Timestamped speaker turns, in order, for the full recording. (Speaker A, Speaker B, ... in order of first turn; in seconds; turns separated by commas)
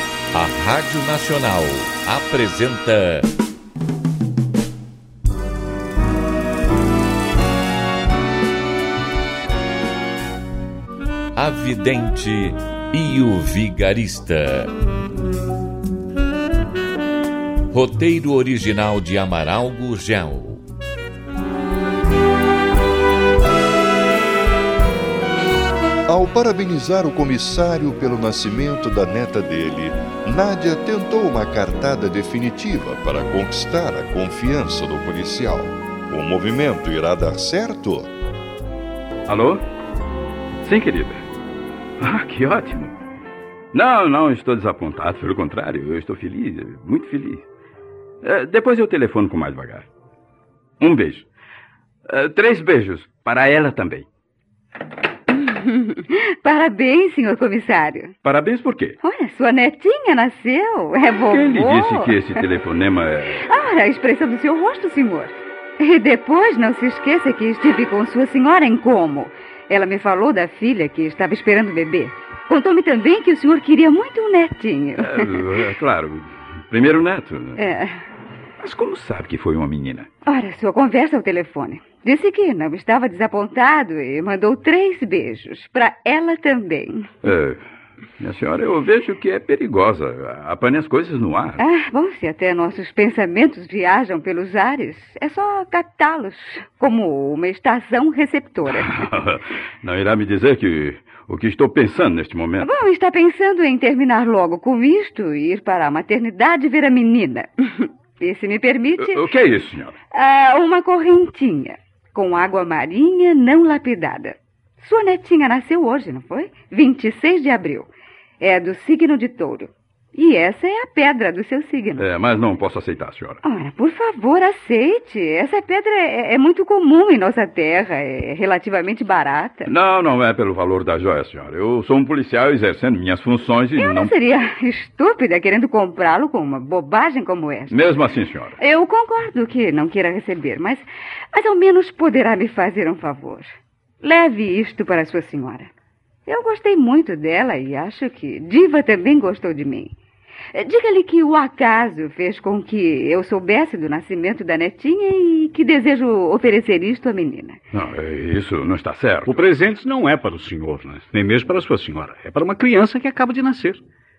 Speaker A: 0.3-3.3, Speaker A: 11.4-14.7, Speaker A: 17.7-20.6, Speaker B: 26.1-38.1, Speaker C: 39.3-39.6, Speaker C: 40.6-41.2, Speaker C: 42.0-43.0, Speaker C: 43.7-47.5, Speaker C: 48.2-49.9, Speaker C: 50.8-51.3, Speaker C: 52.1-54.1, Speaker D: 55.3-58.1, Speaker C: 58.2-59.0, Speaker D: 59.0-62.4, Speaker C: 61.3-63.6, Speaker D: 63.4-75.4, Speaker C: 75.0-77.6, Speaker D: 77.6-78.0, Speaker C: 78.6-80.1, Speaker D: 80.2-87.1, Speaker C: 87.2-87.6, Speaker C: 88.2-91.6, Speaker D: 91.6-98.9, Speaker C: 98.7-102.7, Speaker D: 102.6-109.3, Speaker C: 109.0-110.0, Speaker D: 110.1-117.9, Speaker D: 118.4-122.1, Speaker C: 122.0-123.4, Speaker D: 123.4-129.7, Speaker C: 129.7-134.2, Speaker D: 133.8-137.8, Speaker C: 137.7-138.6, Speaker D: 138.6-145.7, Speaker D: 146.3-149.9, Speaker D: 150.5-157.6, Speaker C: 157.7-159.5, Speaker E: 159.3-163.8